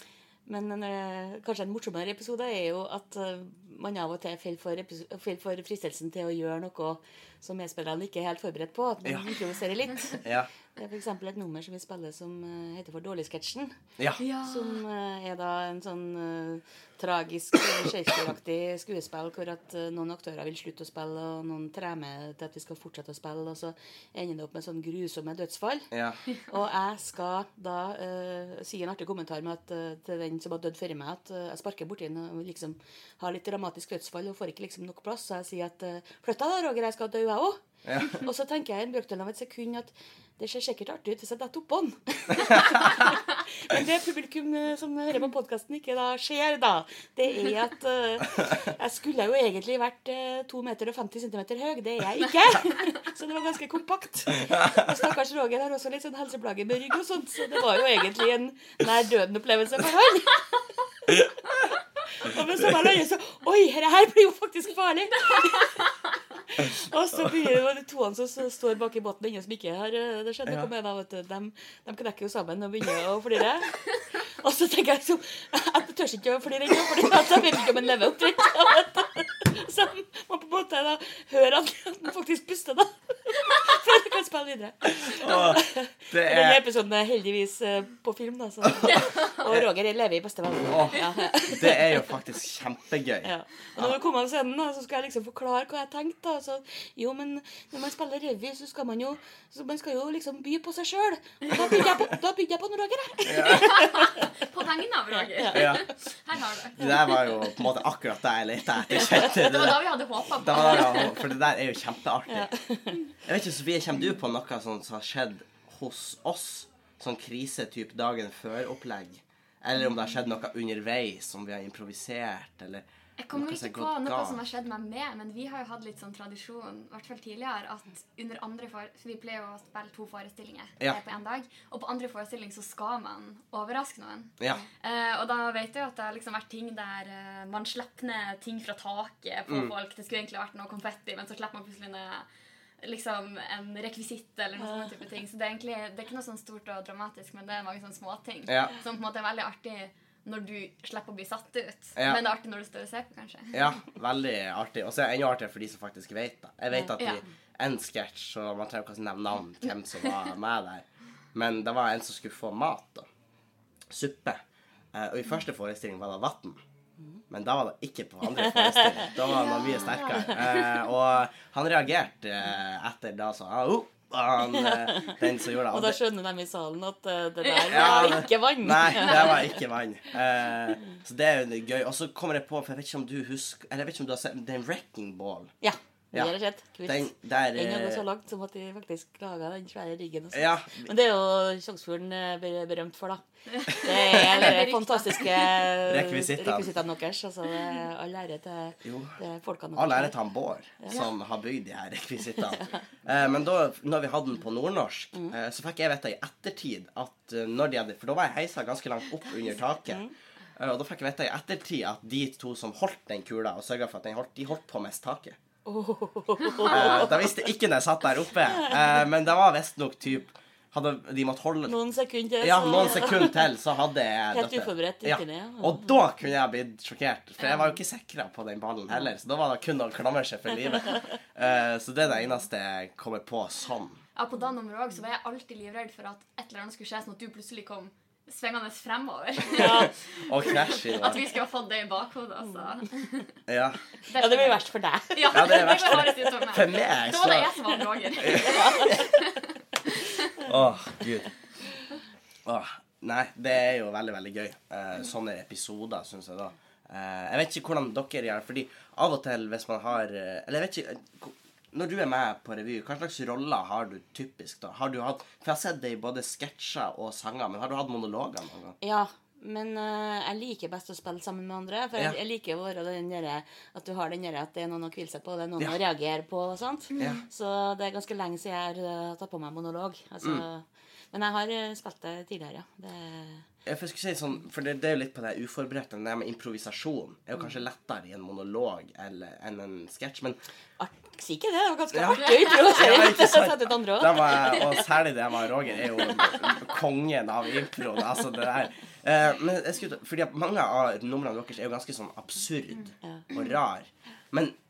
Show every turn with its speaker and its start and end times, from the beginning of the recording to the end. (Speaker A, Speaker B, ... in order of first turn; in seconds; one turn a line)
Speaker A: 0.5-10.2
Speaker B: 10.2-10.5
Speaker A: 10.7-13.7
Speaker C: 14.2-14.8
Speaker A: 14.4-25.9
Speaker B: 25.9-26.2
Speaker A: 26.4-60.5
Speaker B: 37.8-38.2
Speaker B: 42.3-43.0
Speaker B: 54.5-54.8
Speaker A: 61.0-61.3
Speaker A: 62.1-65.8
Speaker A: 66.5-92.2
Speaker B: 85.0-86.6
Speaker B: 88.7-89.6
Speaker C: 88.9-89.4
Speaker B: 90.7-93.9
Speaker A: 93.2-104.2
Speaker B: 103.2-103.8
Speaker C: 103.5-107.3
Speaker A: 105.1-105.8
Speaker B: 105.5-105.8
Speaker B: 106.8-112.5
Speaker C: 108.9-111.2
Speaker A: 112.3-113.0
Speaker B: 113.2-124.4
Speaker C: 123.2-142.3
Speaker B: 139.5-139.7
Speaker C: 142.8-153.6
Speaker B: 148.5-148.7
Speaker B: 153.5-163.1
Speaker B: 163.9-164.4
Speaker B: 164.9-166.6
Speaker B: 167.3-176.0
Speaker A: 168.3-169.3
Speaker C: 169.2-170.9
Speaker A: 174.5-179.5
Speaker C: 177.5-178.2
Speaker B: 177.6-185.5
Speaker A: 185.6-200.1
Speaker B: 186.8-188.0
Speaker B: 190.3-190.9
Speaker C: 193.5-195.7
Speaker B: 195.8-196.7
Speaker B: 198.8-199.2
Speaker B: 199.8-215.4
Speaker A: 200.8-201.1
Speaker A: 215.6-217.3
Speaker B: 216.6-221.7
Speaker A: 221.7-223.4
Speaker B: 222.4-234.0
Speaker A: 224.3-225.9
Speaker C: 227.4-227.7
Speaker C: 234.2-243.3
Speaker A: 239.5-239.9
Speaker B: 239.5-241.2
Speaker B: 243.5-243.8
Speaker C: 244.0-249.4
Speaker A: 244.1-246.4
Speaker B: 245.3-247.5
Speaker B: 248.2-249.0
Speaker A: 248.3-249.1
Speaker C: 250.0-250.3
Speaker B: 250.4-251.3
Speaker B: 252.4-268.8
Speaker A: 268.8-283.5
Speaker C: 276.9-277.2
Speaker B: 277.0-277.2
Speaker B: 283.6-290.4
Speaker A: 290.8-294.8
Speaker B: 291.9-304.5
Speaker C: 292.2-292.7
Speaker A: 303.0-303.3